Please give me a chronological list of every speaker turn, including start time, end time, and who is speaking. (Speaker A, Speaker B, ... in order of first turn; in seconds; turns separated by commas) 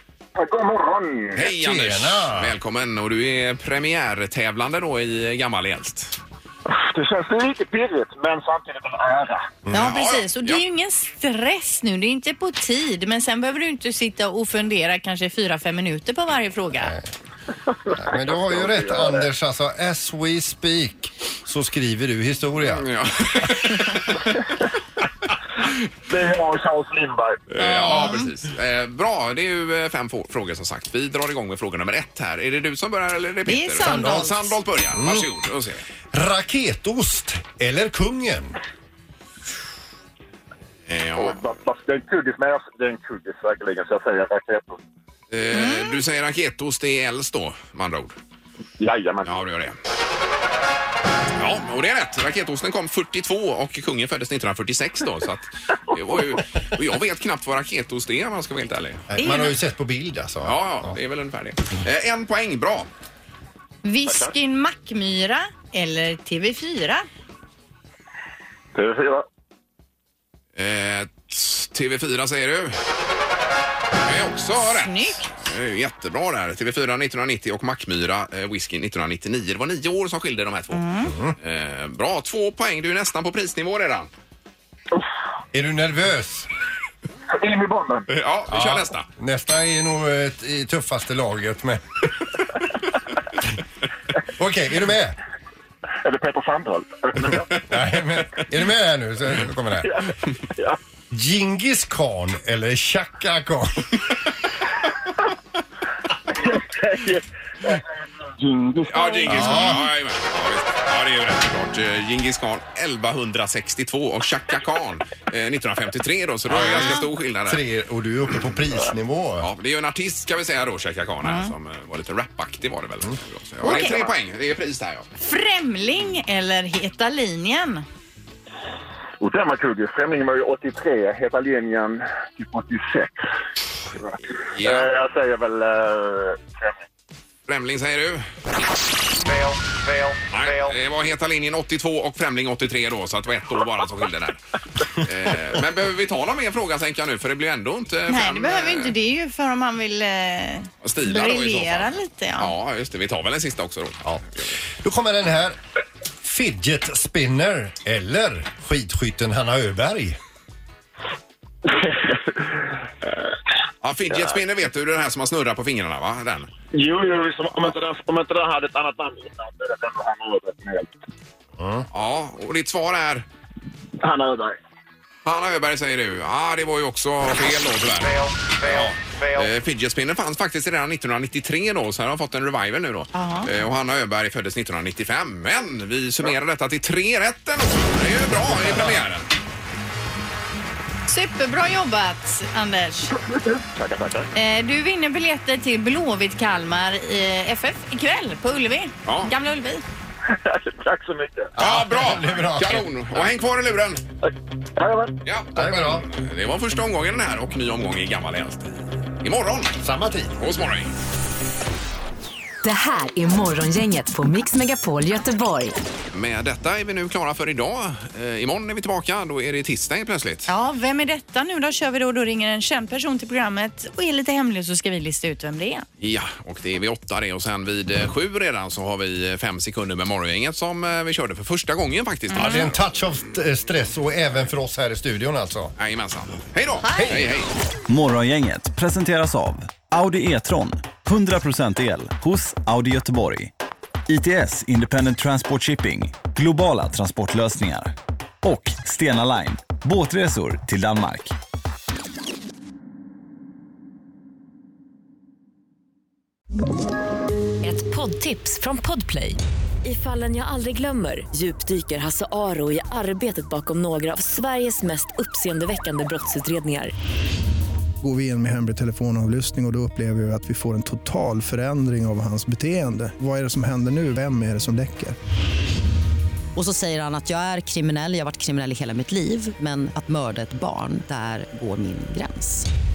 Speaker A: 0.3-1.4, Speaker B: 1.4-6.2, Speaker C: 1.4-2.5, Speaker A: 6.7-9.5, Speaker C: 9.7-9.9, Speaker D: 9.7-16.9, Speaker B: 9.7-10.6, Speaker C: 16.8-17.1, Speaker A: 17.9-19.3, Speaker C: 17.9-22.9, Speaker B: 22.7-24.3, Speaker A: 26.1-27.4, Speaker B: 27.5-35.8, Speaker D: 27.6-28.3, Speaker D: 33.5-34.5, Speaker C: 33.8-34.2, Speaker C: 34.9-35.2, Speaker C: 36.1-38.6, Speaker B: 40.9-41.4, Speaker A: 41.1-44.8, Speaker B: 45.3-48.1, Speaker D: 45.5-45.9, Speaker A: 48.8-49.3, Speaker B: 49.2-49.8, Speaker B: 51.4-59.0, Speaker A: 56.1-56.4, Speaker C: 59.1-60.9, Speaker D: 59.2-59.6, Speaker B: 60.4-62.9, Speaker D: 63.8-67.1, Speaker A: 68.7-69.2, Speaker B: 70.5-72.8, Speaker B: 74.0-84.1, Speaker D: 74.6-75.2, Speaker D: 80.7-81.1, Speaker C: 81.0-81.3, Speaker C: 85.5-86.5, Speaker A: 87.3-88.0, Speaker B: 88.1-89.1, Speaker C: 88.5-91.8, Speaker C: 94.4-95.2, Speaker A: 96.0-97.6, Speaker C: 97.7-100.0, Speaker A: 99.8-100.8, Speaker C: 101.1-103.9, Speaker A: 106.3-109.5, Speaker B: 108.9-117.6, Speaker C: 109.2-109.8, Speaker D: 116.5-117.0, Speaker C: 116.6-119.5, Speaker B: 119.4-125.1, Speaker D: 121.2-121.5, Speaker D: 123.6-124.0, Speaker D: 125.2-127.8, Speaker A: 129.2-133.1, Speaker A: 133.9-136.8, Speaker B: 134.5-134.9, Speaker B: 137.5-138.3, Speaker B: 140.3-144.4, Speaker B: 144.9-148.9, Speaker D: 148.1-152.5, Speaker B: 150.8-154.6, Speaker C: 154.8-155.6, Speaker C: 156.2-160.2, Speaker A: 161.7-163.3, Speaker B: 163.8-166.5, Speaker A: 164.1-164.4, Speaker A: 166.7-170.9, Speaker C: 171.6-171.8, Speaker B: 171.9-173.2, Speaker A: 174.0-174.6, Speaker B: 175.2-189.3, Speaker D: 183.1-183.5, Speaker D: 191.1-193.1, Speaker A: 193.8-194.3, Speaker D: 194.3-199.8, Speaker B: 199.0-199.3, Speaker A: 200.3-201.5, Speaker C: 201.6-202.9, Speaker B: 201.6-204.0, Speaker A: 204.2-205.2, Speaker B: 205.2-209.7, Speaker C: 205.6-206.0, Speaker C: 209.8-210.3, Speaker B: 210.4-210.9, Speaker E: 212.6-215.7, Speaker B: 216.1-220.5, Speaker D: 220.5-225.8, Speaker B: 226.0-232.8, Speaker D: 232.3-232.7, Speaker C: 232.3-235.7, Speaker B: 235.8-237.5, Speaker C: 236.9-237.3, Speaker F: 237.9-243.5, Speaker F: 244.1-251.3, Speaker G: 257.6-266.9, Speaker H: 268.0-275.1, Speaker I: 276.5-282.7